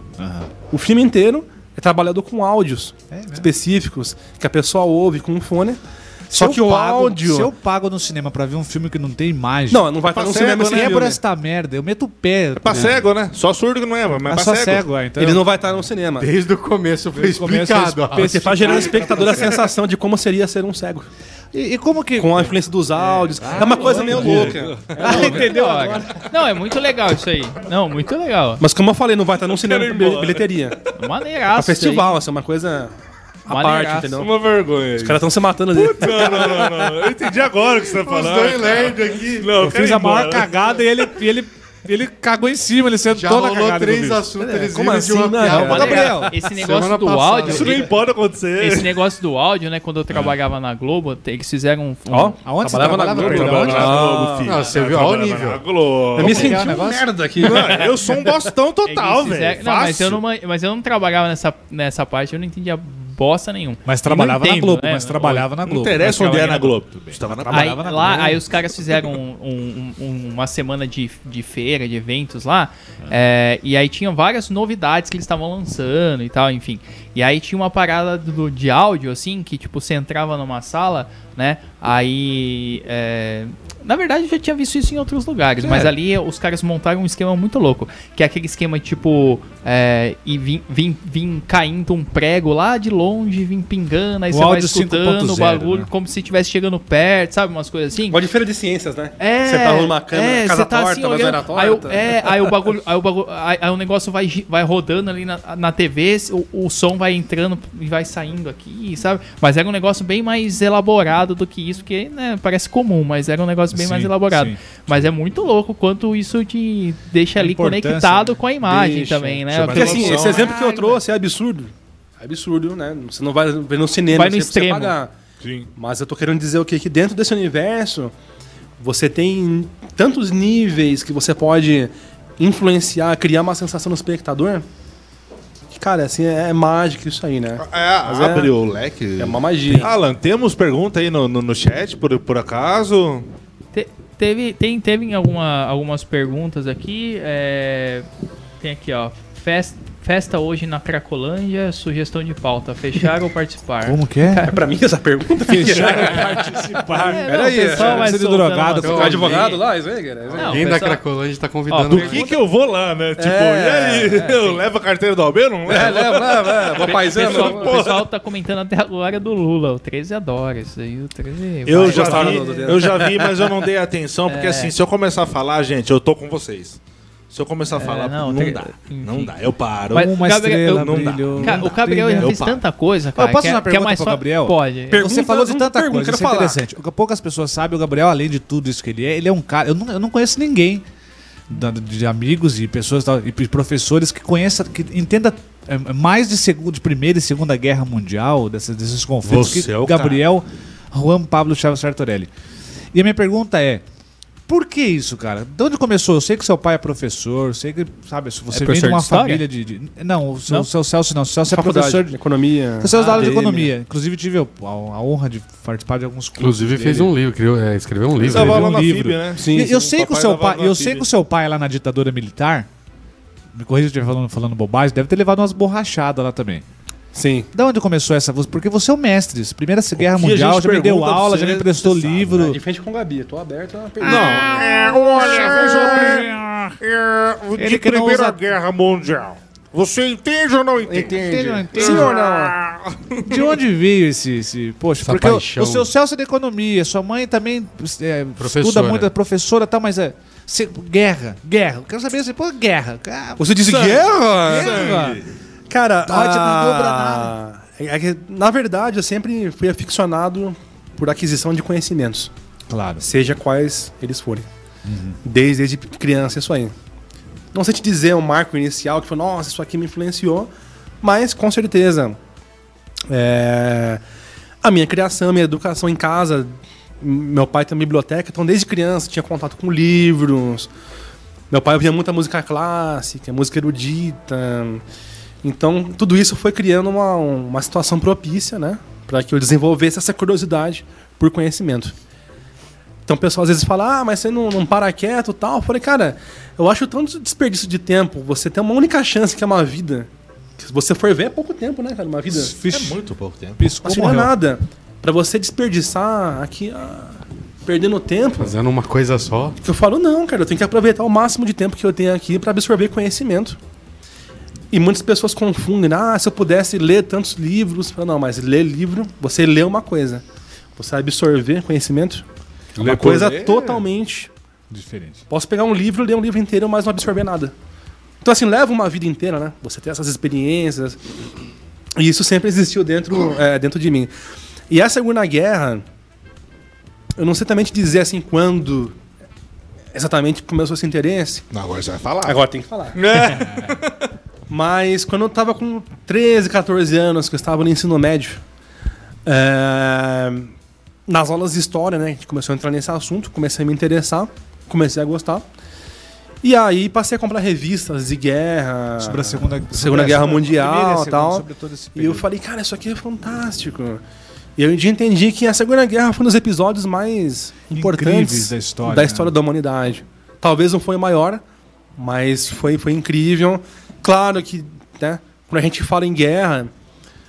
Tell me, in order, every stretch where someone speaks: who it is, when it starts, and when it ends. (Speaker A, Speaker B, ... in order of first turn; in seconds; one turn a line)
Speaker A: 0.2-0.5
Speaker B: 0.7-7.5
Speaker A: 3.1-3.5
Speaker A: 6.3-13.0
Speaker B: 9.7-11.2
Speaker C: 10.1-10.9
Speaker C: 12.6-14.8
Speaker A: 14.3-15.4
Speaker B: 15.2-16.3
Speaker D: 16.2-18.6
Speaker A: 17.1-19.6
Speaker B: 18.2-21.1
Speaker A: 21.5-22.5
Speaker B: 22.2-26.2
Speaker A: 23.4-24.6
Speaker E: 23.6-24.2
Speaker C: 24.1-24.9
Speaker E: 25.0-28.6
Speaker A: 25.1-25.4
Speaker B: 28.6-30.8
Speaker C: 29.5-30.5
Speaker E: 30.9-32.1
Speaker B: 31.5-32.9
Speaker B: 33.5-34.3
Speaker E: 33.5-34.2
Speaker C: 34.2-40.6
Speaker B: 35.0-36.9
Speaker D: 38.0-39.5
Speaker A: 39.6-44.3
Speaker D: 43.1-47.9
Speaker B: 44.4-46.2
Speaker A: 45.4-46.3
Speaker E: 45.5-47.8
Speaker C: 47.5-48.9
Speaker E: 48.6-52.4
Speaker B: 52.1-54.5
Speaker A: 52.4-54.1
Speaker C: 53.0-56.6
Speaker D: 54.4-55.6
Speaker B: 56.2-58.1
Speaker A: 56.2-57.1
Speaker C: 57.4-60.2
Speaker E: 58.8-65.5
Speaker A: 63.9-68.4
Speaker C: 65.6-67.8
Speaker E: 67.5-98.2
Speaker A: 85.6-85.9
Speaker A: 94.3-95.9
Speaker B: 98.1-102.5
Speaker E: 99.2-99.9
Speaker A: 100.1-101.3
Speaker E: 101.0-120.2
Speaker A: 113.7-114.6
Speaker A: 117.4-118.4
Speaker B: 118.7-125.1
Speaker C: 119.5-120.5
Speaker A: 119.7-121.0
Speaker E: 124.1-124.9
Speaker C: 125.4-125.7
Speaker B: 125.8-128.1
Speaker B: 128.8-134.6
Speaker B: 135.7-138.5
Speaker C: 137.6-143.3
Speaker B: 139.2-139.9
Speaker E: 143.7-148.1
Speaker E: 148.6-154.6
Speaker A: 153.8-154.5
Speaker B: 154.4-158.1
Speaker A: 155.4-159.4
Speaker E: 157.0-159.6
Speaker D: 158.8-159.4
Speaker B: 158.8-160.6
Speaker E: 160.3-161.0
Speaker D: 160.4-162.2
Speaker E: 161.7-162.3
Speaker C: 161.9-168.0
Speaker B: 163.2-164.2
Speaker E: 164.2-164.6
Speaker B: 165.7-167.8
Speaker E: 166.8-172.7
Speaker C: 171.7-176.8
Speaker B: 171.8-173.6
Speaker E: 174.3-174.7
Speaker C: 177.3-180.1
Speaker E: 177.8-179.3
Speaker E: 179.9-185.0
Speaker A: 179.9-182.4
Speaker C: 180.7-182.6
Speaker A: 183.2-190.8
Speaker B: 184.9-186.6
Speaker A: 191.5-202.3
Speaker C: 199.2-200.2
Speaker A: 202.9-203.8
Speaker A: 204.5-212.1
Speaker E: 208.5-209.4
Speaker B: 211.5-213.7
Speaker A: 212.8-217.1
Speaker E: 212.9-213.3
Speaker D: 216.4-218.7
Speaker C: 218.2-221.1
Speaker A: 218.3-222.7
Speaker B: 219.4-219.9
Speaker A: 223.5-226.6
Speaker B: 227.1-227.5
Speaker A: 227.5-232.6
Speaker B: 230.0-236.2
Speaker C: 234.0-236.3
Speaker A: 235.2-236.8
Speaker C: 236.8-243.4
Speaker A: 237.6-238.4
Speaker B: 240.8-242.5
Speaker A: 241.2-242.2
Speaker A: 243.2-255.2
Speaker D: 245.0-245.9
Speaker D: 248.4-249.1
Speaker B: 253.4-255.0
Speaker C: 253.7-255.2
Speaker B: 255.7-262.3
Speaker A: 256.0-257.3
Speaker A: 262.7-263.0
Speaker B: 263.0-264.5
Speaker A: 264.9-265.2
Speaker B: 265.2-266.7
Speaker B: 267.5-270.5
Speaker B: 271.0-272.2
Speaker B: 273.1-274.0
Speaker B: 274.6-280.7
Speaker B: 281.5-284.8
Speaker B: 285.4-291.9
Speaker B: 293.1-302.5
Speaker A: 302.4-303.0
Speaker C: 302.6-303.6
Speaker A: 303.6-304.3
Speaker B: 303.8-308.5
Speaker D: 308.4-309.6
Speaker B: 309.6-313.6
Speaker B: 314.7-320.2
Speaker B: 320.8-322.2
Speaker C: 322.8-323.8
Speaker B: 322.8-324.3
Speaker A: 324.7-325.2
Speaker B: 325.3-327.5
Speaker B: 328.2-331.0
Speaker B: 331.9-334.1
Speaker B: 334.7-335.8
Speaker B: 337.2-338.9
Speaker B: 339.9-341.4
Speaker C: 341.5-342.4
Speaker B: 342.2-343.0
Speaker C: 342.9-343.9
Speaker B: 344.5-348.4
Speaker B: 349.2-350.5
Speaker B: 351.1-355.4
Speaker B: 356.4-364.0
Speaker A: 359.0-362.2
Speaker B: 364.6-371.4
Speaker A: 367.7-369.3
Speaker B: 371.9-376.7